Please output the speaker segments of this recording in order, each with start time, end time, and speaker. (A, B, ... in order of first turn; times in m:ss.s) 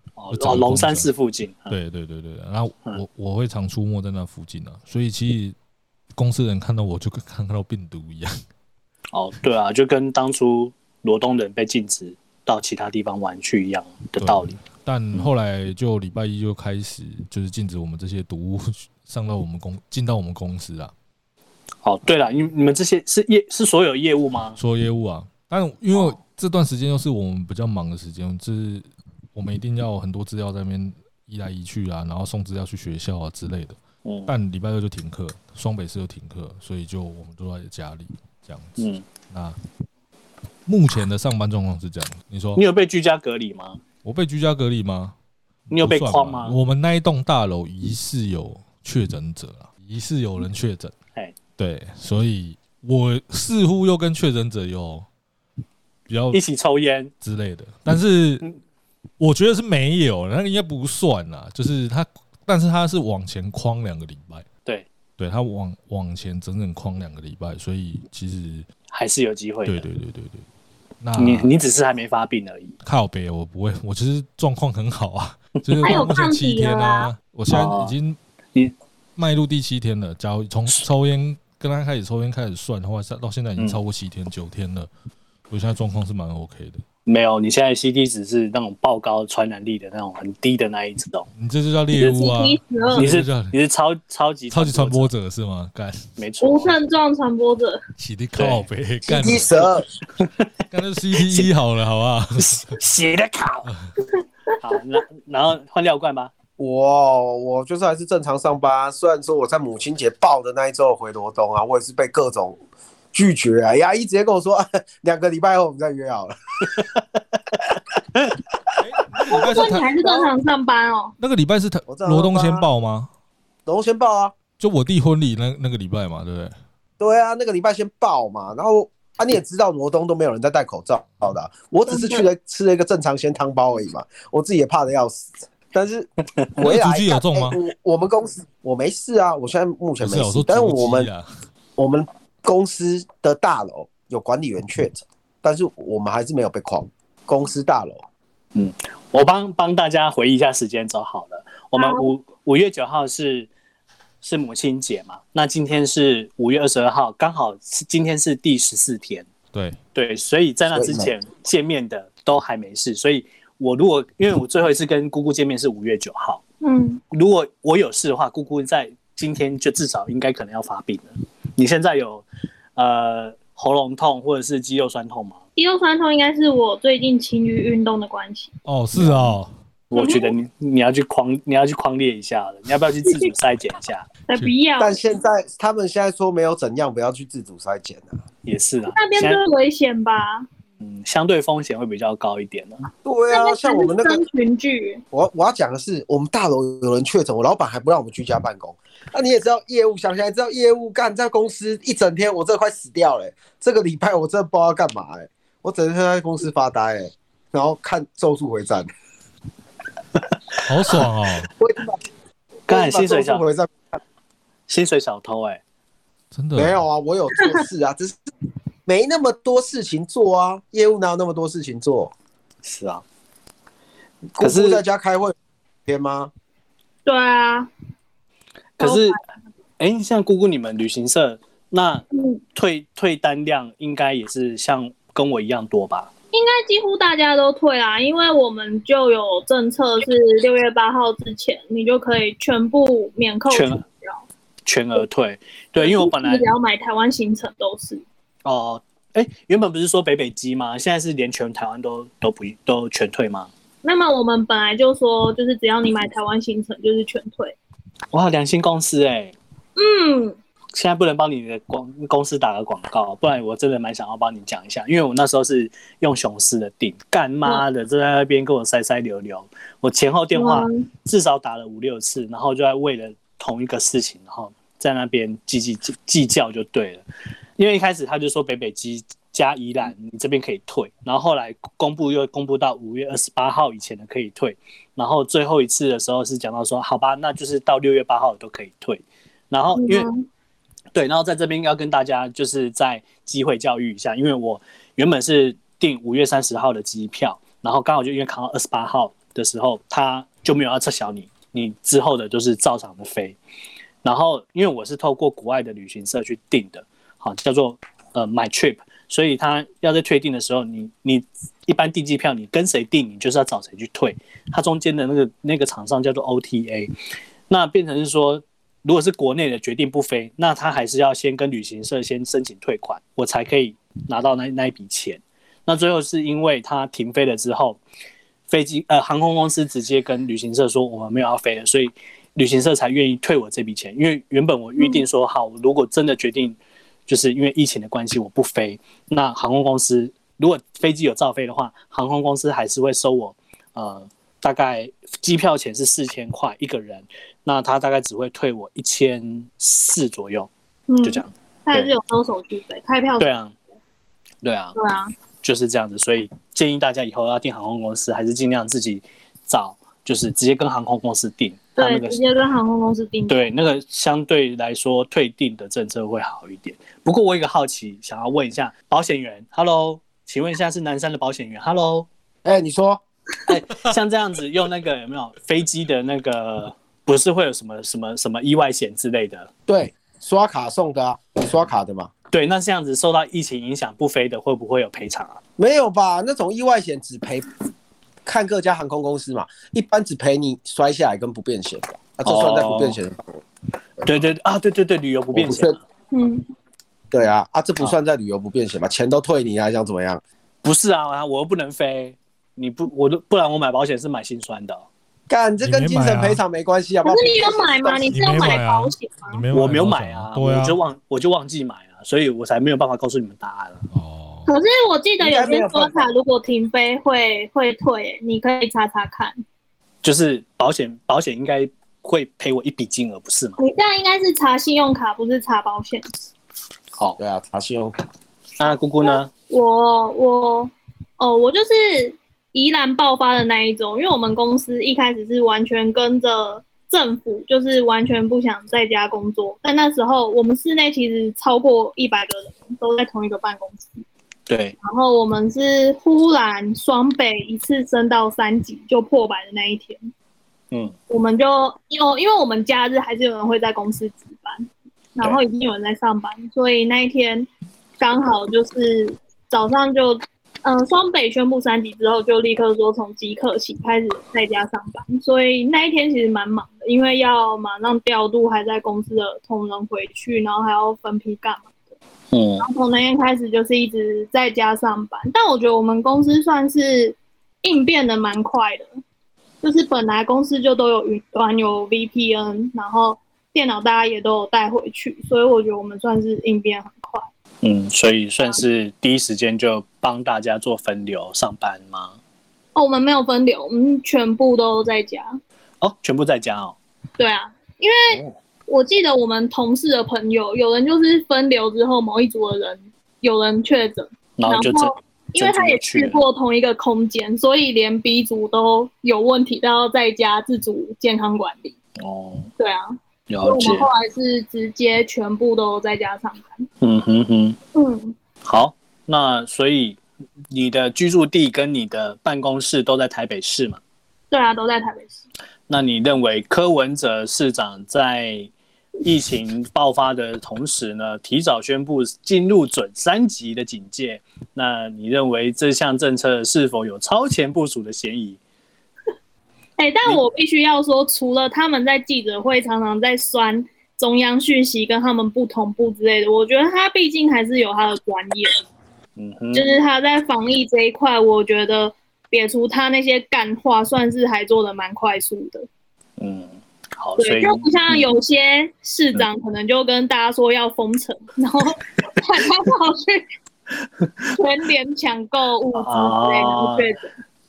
0:00.2-0:01.8 A
0:00.3-0:01.1 B
0:01.7-0:05.6 B
0:06.1-0:08.4 B
0:09.1-0:14.6 A
0:14.2-0:20.9 B
0:21.8-0:24.6 A
0:24.6-0:39.6 B
0:34.0-0:34.3 A
0:38.8-0:39.0 A
0:40.6-0:42.6 B
0:42.6-0:43.8 A
0:44.0-0:45.1 B
0:45.7-0:46.6 A
0:45.7-0:50.9 B
0:51.6-0:55.1 B
0:56.1-0:56.4 B
0:56.3-0:57.1 A
0:57.2-0:58.4 B
0:59.2-1:04.4 B
1:05.2-1:08.7 B
1:08.9-1:09.8 A
1:09.6-1:10.4 B
1:11.0-1:11.5 B
1:11.2-1:12.8 A
1:12.8-1:18.2 B
1:15.6-1:16.1 A
1:15.8-1:17.1 C
1:17.5-1:17.9 A
1:19.2-1:24.9 B
1:25.5-1:26.8 B
1:27.0-1:31.3 A
1:31.3-1:33.5 B
1:31.9-1:33.1 C
1:32.9-1:35.1 A
1:34.5-1:36.1 B
1:36.2-1:36.8 A
1:36.4-1:37.8 C
1:38.0-1:39.7 B
1:38.4-1:38.6 A
1:39.0-1:39.8 D
1:40.2-1:40.5 A
1:40.7-1:42.8 B
1:41.2-1:41.5 A
1:42.4-1:43.7 A
1:44.6-1:46.3 A
1:46.6-1:52.6 D
1:53.1-1:56.8 D
1:58.8-1:59.9 B
1:59.3-2:01.1 C
1:59.4-2:00.3 D
2:01.2-2:03.1 B
2:01.9-2:02.6 D
2:03.6-2:04.3 D
2:04.6-2:06.5 B
2:07.0-2:21.1 D
2:11.9-2:12.2 C
2:16.4-2:16.6 A
2:16.6-2:17.6 B
2:20.0-2:21.3 B
2:21.8-2:28.0 D
2:28.5-2:33.5 A
2:31.8-2:32.0 C
2:34.2-2:39.3 A
2:39.5-2:39.8 B
2:39.9-2:46.4 A
2:40.7-2:41.1 D
2:46.6-2:47.0 C
2:47.1-2:55.4 A
2:55.6-2:58.5 C
2:58.6-2:59.5 B
2:59.0-2:59.3 A
2:59.9-3:04.1 A
2:59.9-3:00.3 C
3:03.0-3:03.3 C
3:04.3-3:05.0 C
3:04.8-3:08.1 D
3:08.4-3:09.4 A
3:08.9-3:10.4 C
3:10.8-3:12.8 A
3:13.0-3:14.2 D
3:13.3-3:15.0 C
3:15.1-3:28.9 D
3:30.6-3:31.5 B
3:31.6-3:32.0 D
3:32.7-3:33.4 A
3:32.7-3:33.9 D
3:34.7-3:35.6 A
3:36.3-3:36.8 B
3:36.5-3:38.2 D
3:38.8-3:42.1 D
3:42.6-3:43.0 A
3:44.4-3:45.3 D
3:44.4-3:44.8 A
3:45.9-3:46.3 D
3:47.0-3:47.7 C
3:48.8-3:49.2 A
3:48.8-3:49.2 C
3:49.8-3:52.0 A
3:52.1-3:52.4 C
3:52.5-3:56.1 A
3:56.3-4:04.2 C
4:03.5-4:03.8 A
4:04.6-4:06.5 A
4:05.8-4:08.0 C
4:08.4-4:13.5 A
4:13.8-4:17.6 C
4:18.1-4:19.3 A
4:19.8-4:20.4 C
4:20.7-4:37.0 A
4:30.3-4:30.9 C
4:37.6-4:50.0 A
4:49.7-4:50.3 C
4:50.9-5:03.4 A
5:04.0-5:16.9 A
5:17.5-5:27.8 A
5:28.5-5:50.5 A
5:50.9-5:53.3 C
5:51.0-5:51.9 A
5:53.2-5:53.5 A
5:54.4-5:54.8 A
5:54.8-5:55.1 C
5:55.4-6:02.2 A
6:01.8-6:03.4 C
6:03.3-6:12.1 A
6:12.4-6:13.0 D
6:13.5-6:19.5 A
6:19.7-6:22.1 D
6:22.3-6:25.4 A
6:25.6-6:27.4 D
6:28.2-6:33.3 D
6:32.2-6:33.0 A
6:34.0-6:35.8 A
6:35.3-6:35.7 D
6:36.1-6:36.4 C
6:37.1-6:40.2 D
6:40.6-6:44.9 A
6:45.3-6:48.6 D
6:45.6-6:46.4 B
6:47.0-6:49.4 C
6:48.1-6:50.8 B
6:49.5-6:53.8 A
6:53.9-6:54.5 B
6:54.4-6:59.4 C
6:55.2-6:56.1 D
7:00.0-7:03.6 A
7:03.6-7:06.0 C
7:07.2-7:08.0 D
7:08.6-7:09.3 A
7:09.0-7:24.0 C
7:24.5-7:24.8 A
7:24.8-7:30.1 C
7:31.1-7:51.7 C
7:52.3-7:52.7 A
7:52.6-7:58.9 C
7:59.6-8:07.3 C
8:07.6-8:12.2 A
8:12.7-8:15.3 C
8:15.8-8:16.8 A
8:17.2-8:31.7 C
8:24.4-8:26.2 A
8:32.0-8:32.5 A
8:32.6-8:36.7 C
8:33.3-8:33.9 A
8:36.8-8:37.6 A
8:37.7-8:38.1 C
8:38.4-8:40.0 A
8:40.5-8:43.8 A
8:44.3-8:45.2 C
8:45.7-8:48.5 A
8:49.0-8:58.4 A
8:59.8-9:08.6 C
9:09.2-9:09.7 A
9:09.5-9:15.6 C
9:16.2-9:18.1 A
9:17.2-9:23.2 C
9:24.0-9:24.4 A
9:24.4-9:27.1 C
9:25.7-9:26.9 A